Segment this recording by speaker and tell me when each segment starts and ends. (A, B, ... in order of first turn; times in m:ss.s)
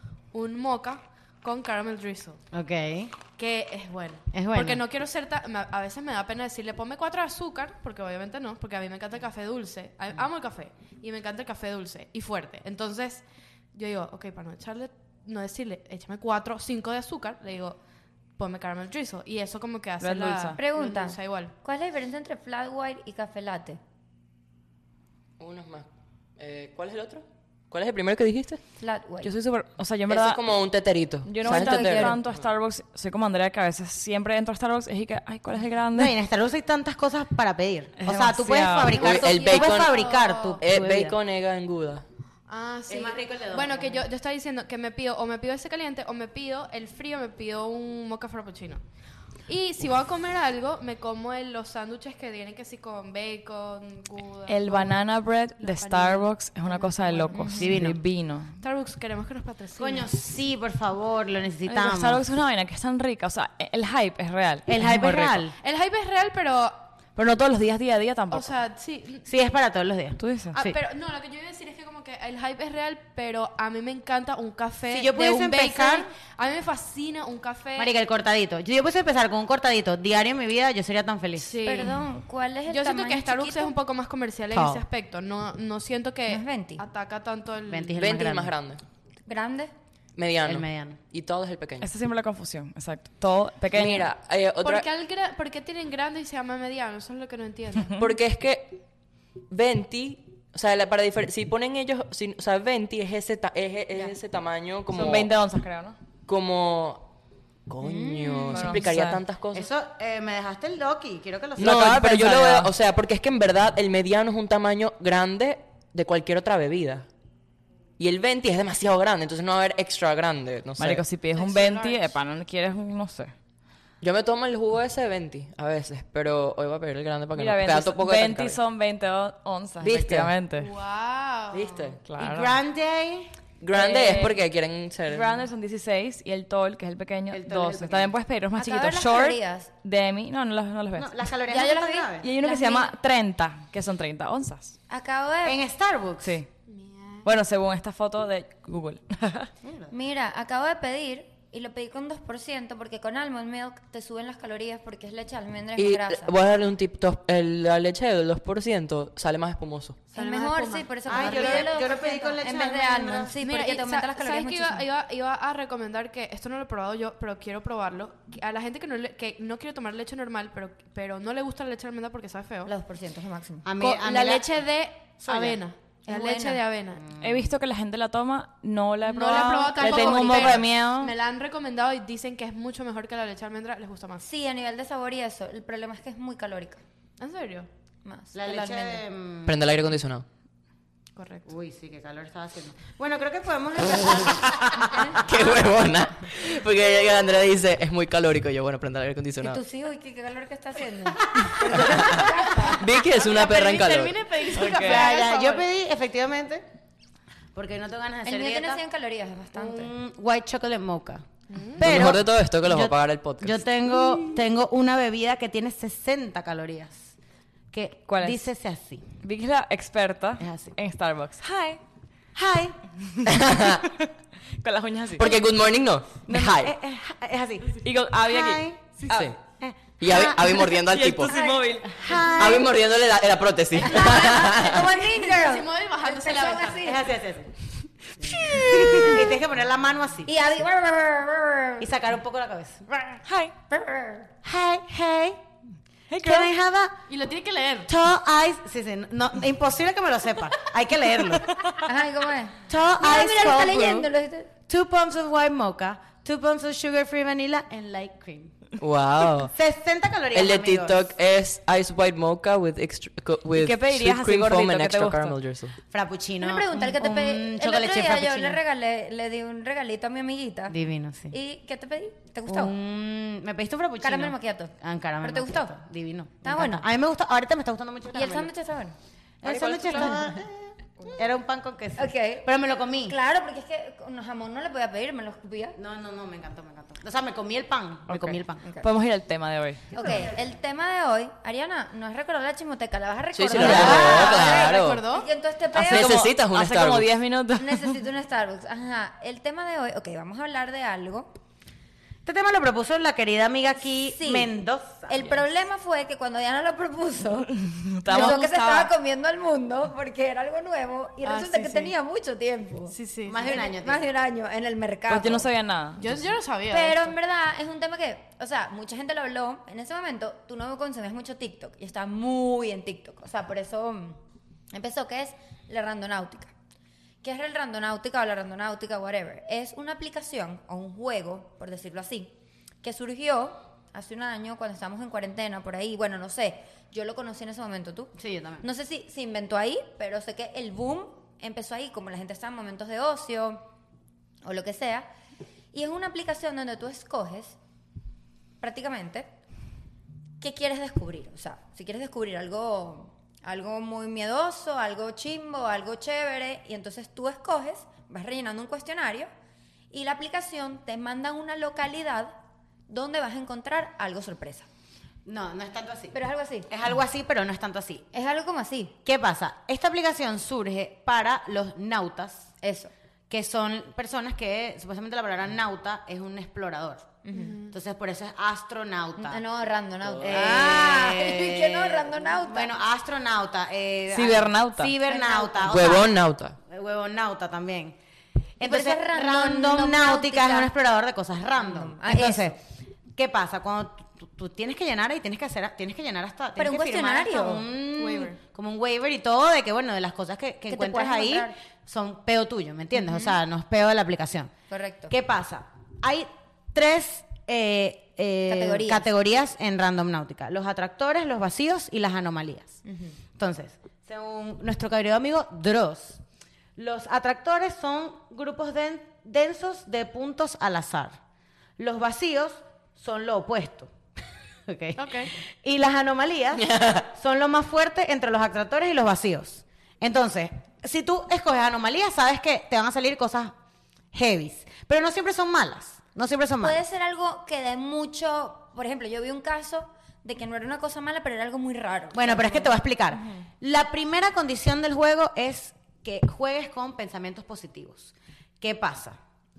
0:00.3-0:02.4 A
0:02.5-0:03.1 B
0:03.4-0:17.8 A
0:04.3-0:04.8 B
0:18.4-0:21.5 A
0:20.0-0:20.6 C
0:20.6-0:23.8 D
0:25.4-0:25.9 E
0:26.4-0:28.6 E
0:28.8-0:29.3 D
0:29.2-0:30.4 C
0:30.1-0:32.4 E
0:31.2-0:36.1 C
0:31.4-0:32.2 D
0:36.0-0:41.2 B
0:38.0-0:39.0 C
0:38.9-0:40.0 E
0:39.0-0:40.6 A
0:40.6-0:42.0 E
0:42.5-0:48.8 A
0:42.9-0:44.1 B
0:49.5-0:57.6 A
0:54.5-0:58.6 C
0:57.3-0:57.7 D
0:57.5-0:58.0 B
0:58.6-1:00.1 A
0:59.8-1:02.2 B
1:01.6-1:05.5 C
1:04.7-1:05.5 B
1:05.6-1:06.8 A
1:07.2-1:08.5 C
1:08.3-1:09.2 A
1:09.2-1:10.8 B
1:10.2-1:10.6 C
1:10.5-1:17.9 A
1:14.9-1:16.1 B
1:17.8-1:21.5 B
1:21.4-1:22.1 A
1:21.6-1:23.8 D
1:22.7-1:28.0 A
1:24.5-1:24.8 B
1:26.3-1:26.8 D
1:27.7-1:28.5 B
1:28.0-1:28.8 E
1:29.2-1:29.7 D
1:30.2-1:31.9 E
1:30.4-1:31.0 B
1:31.8-1:34.1 C
1:33.7-1:34.9 E
1:34.6-1:38.0 A
1:38.0-1:38.8 E
1:39.5-1:45.3 E
1:44.9-1:46.0 C
1:46.3-1:47.1 E
1:47.7-1:49.7 E
1:47.8-1:48.8 D
1:48.5-1:49.2 C
1:49.5-1:51.9 B
1:51.6-1:57.1 E
1:51.6-1:52.7 C
1:58.0-2:01.0 E
2:00.8-2:03.3 C
2:01.3-2:02.1 A
2:04.0-2:08.6 E
2:07.3-2:10.7 C
2:09.8-2:10.3 E
2:10.6-2:11.9 A
2:11.5-2:12.0 E
2:12.0-2:12.5 C
2:12.2-2:13.3 B
2:13.6-2:15.4 E
2:13.7-2:14.4 C
2:15.1-2:21.1 C
2:17.3-2:18.1 B
2:18.5-2:19.7 D
2:21.0-2:22.3 B
2:21.5-2:22.9 D
2:22.2-2:24.8 C
2:24.9-2:25.6 D
2:25.4-2:26.4 B
2:26.2-2:26.5 C
2:26.7-2:27.3 A
2:27.2-2:29.5 C
2:29.6-2:29.9 B
2:29.9-2:36.4 D
2:35.8-2:40.0 E
2:40.1-2:41.7 A
2:40.1-2:44.9 D
2:41.1-2:43.3 B
2:43.4-2:52.7 A
2:52.6-2:53.7 D
2:53.6-2:54.6 B
2:53.8-2:57.1 A
2:55.2-2:55.6 B
2:56.1-2:56.6 D
2:57.0-2:57.5 B
2:57.2-3:01.1 C
2:59.1-3:04.2 A
2:59.8-3:00.6 B
2:59.8-3:00.3 D
3:04.2-3:06.8 D
3:07.2-3:07.7 A
3:08.0-3:09.0 D
3:08.3-3:09.6 B
3:09.5-3:10.2 E
3:11.2-3:11.5 A
3:11.5-3:15.4 B
3:15.2-3:19.6 E
3:19.4-3:22.8 D
3:21.4-3:22.7 B
3:21.7-3:24.4 E
3:22.7-3:25.6 A
3:24.5-3:25.1 C
3:24.6-3:26.6 B
3:27.5-3:28.8 B
3:28.2-3:29.9 D
3:29.5-3:37.1 B
3:31.5-3:32.0 A
3:31.8-3:33.6 E
3:37.7-3:39.0 B
3:38.1-3:38.4 C
3:39.2-3:41.8 C
3:40.4-3:40.8 B
3:42.4-3:42.8 B
3:43.1-3:44.1 C
3:43.2-3:43.9 E
3:44.6-3:45.4 C
3:45.2-3:46.7 E
3:46.3-3:46.7 C
3:46.3-3:48.9 B
3:47.8-3:49.2 C
3:49.1-3:49.4 E
3:49.5-3:50.7 B
3:50.0-3:51.4 E
3:50.8-3:52.1 C
3:51.3-3:52.7 B
3:52.4-3:54.9 E
3:53.8-3:57.1 D
3:53.9-3:56.9 A
3:56.8-3:57.5 B
3:58.2-4:00.3 B
3:58.4-3:59.2 C
4:00.2-4:01.9 D
4:01.8-4:03.2 B
4:03.2-4:03.5 C
4:03.7-4:04.3 D
4:04.4-4:05.4 B
4:06.1-4:06.5 C
4:06.2-4:07.0 B
4:07.1-4:07.9 A
4:07.9-4:11.5 B
4:11.8-4:14.5 D
4:12.7-4:14.1 B
4:14.7-4:18.5 B
4:18.8-4:19.5 E
4:19.4-4:21.1 B
4:20.3-4:25.8 E
4:23.5-4:25.4 C
4:25.9-4:28.6 B
4:26.4-4:30.8 D
4:30.7-4:31.4 B
4:31.3-4:32.7 D
4:32.5-4:38.5 B
4:34.0-4:35.7 D
4:36.4-4:36.9 D
4:38.1-4:39.0 D
4:39.4-4:43.1 B
4:39.4-4:40.2 E
4:39.8-4:40.2 C
4:42.0-4:42.5 D
4:43.0-4:45.8 D
4:45.8-4:48.6 B
4:48.1-4:49.9 C
4:48.6-4:48.9 D
4:49.9-4:56.2 D
4:53.3-4:55.0 E
4:53.6-4:55.3 A
4:53.6-4:53.9 C
4:55.7-4:58.0 C
4:55.9-4:57.1 E
4:57.6-5:01.3 D
5:02.2-5:05.4 B
5:04.1-5:04.5 D
5:05.1-5:07.5 D
5:07.5-5:08.5 C
5:08.1-5:15.5 D
5:08.1-5:08.9 A
5:11.2-5:11.9 A
5:12.9-5:13.6 A
5:13.2-5:14.1 B
5:15.1-5:16.1 C
5:16.0-5:17.2 A
5:16.7-5:24.2 D
5:24.7-5:26.5 D
5:27.2-5:32.3 D
5:32.8-5:43.6 D
5:38.2-5:38.6 B
5:44.4-5:45.1 D
5:45.7-5:47.6 D
5:48.6-5:49.3 D
5:50.4-5:59.3 D
5:59.9-6:02.4 D
6:02.9-6:04.7 D
6:05.2-6:06.1 B
6:06.1-6:06.7 D
6:06.7-6:08.0 B
6:08.1-6:09.0 D
6:09.0-6:12.5 B
6:12.6-6:12.9 D
6:13.3-6:17.2 B
6:17.2-6:17.6 D
6:17.3-6:17.8 A
6:17.7-6:19.4 B
6:19.2-6:22.8 D
6:20.0-6:20.6 E
6:20.2-6:26.1 B
6:24.1-6:24.9 C
6:25.1-6:26.0 D
6:25.6-6:26.6 E
6:26.7-6:28.0 B
6:28.6-6:32.6 B
6:28.6-6:30.7 D
6:31.6-6:32.6 D
6:33.2-6:44.5 B
6:36.6-6:37.6 D
6:38.0-6:38.4 A
6:40.7-6:41.6 D
6:43.1-6:43.4 D
6:44.7-6:45.1 D
6:45.1-6:52.8 B
6:48.5-6:49.1 D
6:52.8-6:53.2 D
6:53.4-6:56.2 B
6:56.8-7:01.2 B
7:01.8-7:03.9 B
7:04.7-7:13.5 B
7:05.0-7:05.3 A
7:14.1-7:16.8 B
7:16.6-7:23.4 D
7:22.1-7:29.2 B